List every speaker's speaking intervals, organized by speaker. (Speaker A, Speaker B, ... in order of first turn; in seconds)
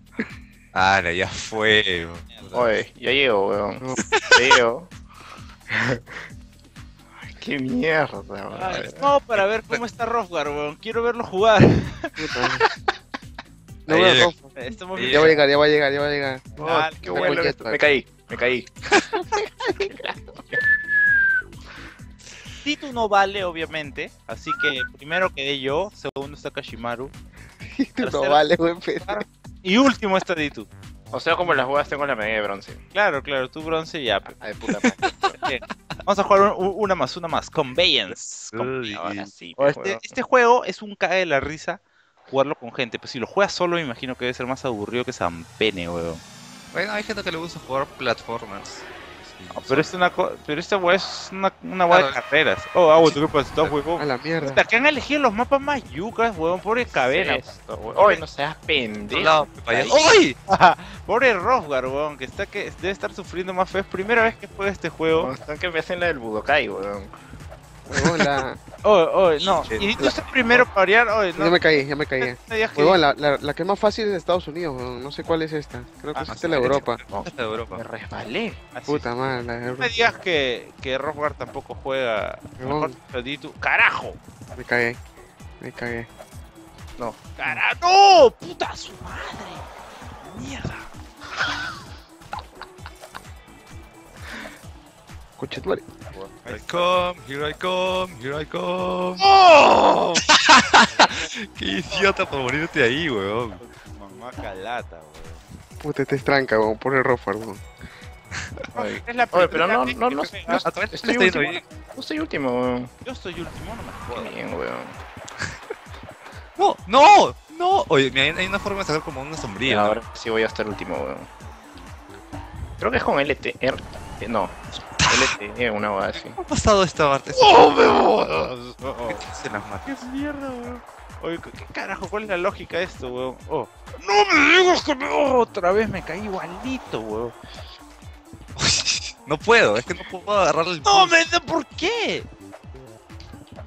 Speaker A: 0.7-2.7, 8.8-9.8, 13.9-14.3, 14.9-15.4, 34.8-35.1, 38.5-39.3, 46.7-49.9, 51.9-52.2, 53.0-53.7, 58.0-58.2, 59.1-60.4, 69.4-69.9, 76.3-77.8, 96.5-99.2, 100.3-103.6, 110.4-111.6, 116.6-120.0, 124.9-125.3, 126.2-127.7, 129.1-130.0, 138.6-141.1
Speaker B: 2.3-2.6, 8.5-12.1, 14.5-15.4, 16.6-17.5, 22.6-27.1, 28.0-28.4, 29.0-30.7, 32.9-34.3, 35.4-38.8, 39.5-46.2, 49.5-57.4, 60.5-65.3, 68.8-73.0, 76.1-76.7, 78.7-79.1, 79.8-84.2, 87.4-89.7, 90.2-90.9, 96.4-97.0, 99.2-100.2, 103.6-105.4, 108.7-110.7, 113.0-114.3, 127.3-137.3, 140.8-142.3
Speaker C: 2.5-3.8, 4.3-4.9, 5.7-6.2, 7.2-9.0, 16.6-19.1, 19.8-20.6, 31.1-32.8, 34.2-35.4, 38.8-40.0, 57.1-60.0, 65.1-67.1, 77.1-78.6, 108.7-112.9, 114.1-115.0, 119.7-121.3, 122.8-124.5, 125.1-126.4
Speaker D: 12.2-12.6, 13.9-14.6, 15.1-17.8, 27.6-29.2, 54.0-54.6, 67.9-68.6, 71.4-77.0, 78.9-79.9, 82.6-82.9, 84.6-85.0, 85.6-86.1, 95.4-95.9, 105.8-107.6